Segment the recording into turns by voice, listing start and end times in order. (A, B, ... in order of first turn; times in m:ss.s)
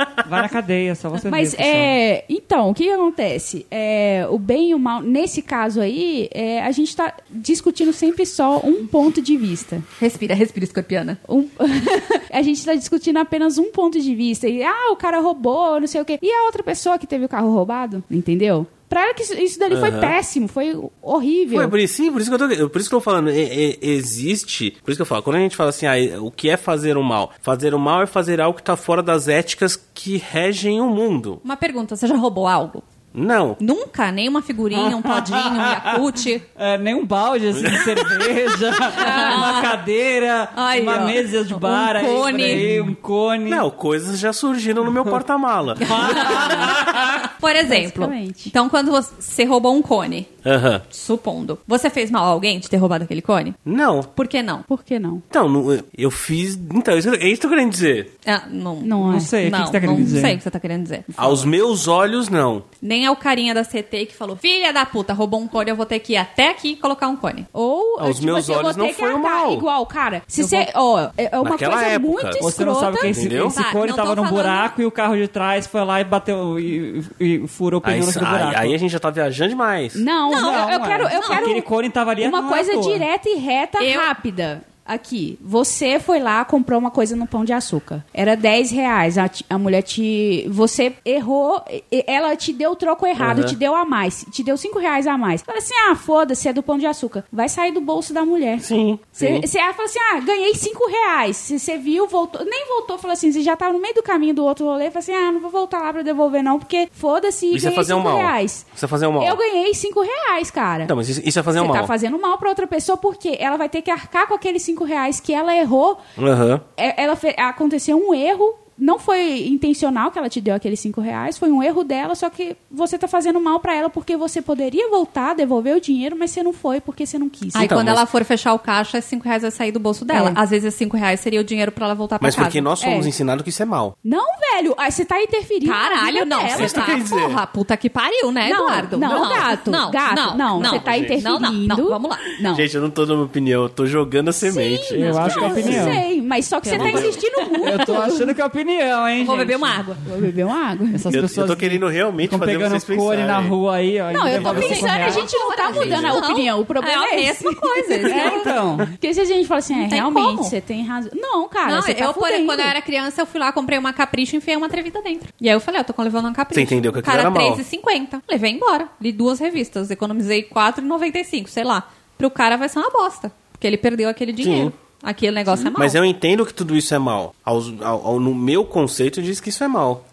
0:00.2-0:01.9 A
0:01.2-0:09.8 B
0:10.0-0:11.2 C
0:11.2-0:21.7 B
0:19.7-0:20.2 D
0:21.5-0:31.4 D
0:31.4-0:32.8 C
0:33.1-0:33.6 D
0:33.6-0:36.4 C
0:34.7-0:43.6 A
0:38.9-0:39.8 C
0:39.0-0:39.6 B
0:40.5-0:42.7 C
0:43.5-0:46.5 D
0:45.8-0:47.2 A
0:45.8-0:50.3 C
0:47.6-0:48.5 B
0:50.4-0:50.8 D
0:50.9-0:53.6 C
0:53.6-0:54.1 D
0:54.1-0:54.6 C
0:54.7-0:55.2 B
0:55.3-0:58.1 D
0:58.2-1:01.4 C
0:58.8-0:59.3 B
0:59.0-1:00.4 A
1:01.2-1:02.6 D
1:02.8-1:07.5 C
1:07.5-1:13.1 B
1:08.0-1:09.7 D
1:10.4-1:10.7 C
1:11.4-1:12.4 D
1:12.4-1:18.8 A
1:12.9-1:14.7 C
1:13.0-1:13.6 D
1:17.8-1:20.0 D
1:19.9-1:21.6 B
1:20.3-1:21.6 C
1:20.3-1:23.1 A
1:22.2-1:50.9 B
1:23.8-1:24.1 C
1:33.2-1:33.6 D
1:38.6-1:39.4 D
1:47.5-1:49.4 D
1:50.8-1:51.9 D
1:51.5-1:56.0 B
1:56.2-1:56.6 D
1:56.8-2:07.7 B
2:07.5-2:12.7 C
2:07.6-2:08.0 D
2:10.1-2:10.4 B
2:12.2-2:13.9 D
2:12.8-2:13.1 B
2:14.0-2:17.0 B
2:15.6-2:22.3 C
2:16.5-2:17.4 D
2:18.4-2:22.7 B
2:19.0-2:19.6 D
2:20.6-2:21.2 D
2:22.4-2:26.0 D
2:24.4-2:28.3 B
2:24.9-2:26.0 A
2:26.6-2:27.2 C
2:26.7-2:27.2 D
2:27.6-2:29.8 A
2:29.2-2:30.0 C
2:30.0-2:31.1 B
2:30.9-2:35.3 A
2:31.1-2:33.5 D
2:34.1-2:42.7 B
2:34.3-2:34.8 D
2:34.4-2:38.5 C
2:35.7-2:36.1 D
2:38.0-2:38.9 A
2:39.7-2:40.5 C
2:41.6-2:56.0 C
2:46.5-2:47.6 D
2:54.4-2:54.7 D
2:55.7-3:00.0 D